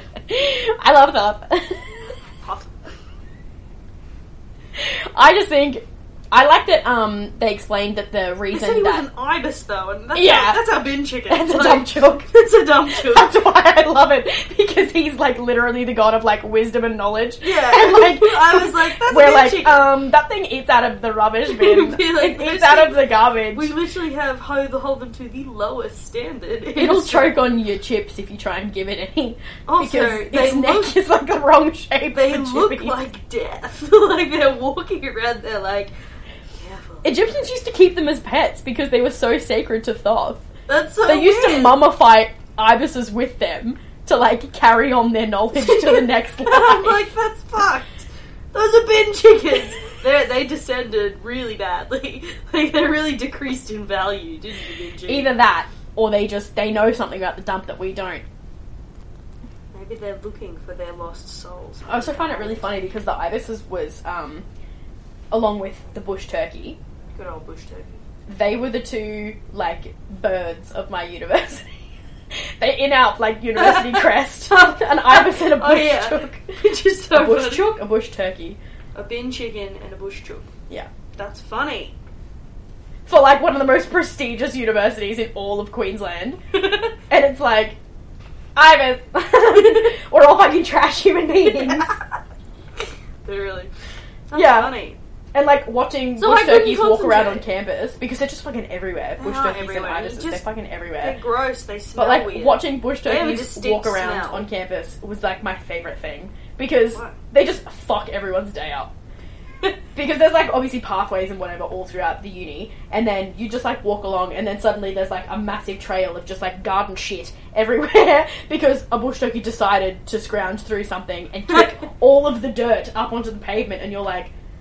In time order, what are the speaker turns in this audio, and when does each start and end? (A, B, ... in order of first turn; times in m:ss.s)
0:00.3-0:01.9 A
0:02.4-0:02.9 B
0:04.8-0:09.0 A
0:08.5-0:13.4 B
0:10.2-0:10.6 A
0:11.3-0:12.3 A
0:12.9-0:23.7 A
0:17.4-0:19.9 B
0:21.5-0:27.4 B
0:26.8-0:33.0 A
0:29.7-0:31.0 B
0:32.1-0:35.9 B
0:36.6-0:37.2 B
0:37.0-0:40.5 A
0:40.7-0:41.8 B
0:41.0-0:47.0 A
0:45.6-0:55.4 B
0:55.1-0:58.2 A
0:59.7-1:02.7 B
1:01.9-1:04.5 A
1:05.3-1:06.8 A
1:07.1-1:08.0 B
1:08.3-1:11.7 A
1:12.3-1:16.6 A
1:13.6-1:17.7 B
1:17.1-1:18.6 A
1:19.0-1:20.5 B
1:21.2-1:22.0 B
1:23.1-1:26.4 A
1:26.6-1:26.9 B
1:27.1-1:27.8 A
1:28.6-1:31.9 A
1:31.6-1:32.0 B
1:33.2-1:33.7 B
1:34.3-1:35.0 B
1:34.3-1:34.7 A
1:35.3-1:41.2 A
1:36.2-1:37.4 B
1:39.2-1:40.5 B
1:41.0-1:44.5 B
1:42.0-1:48.9 A
1:49.9-2:04.3 A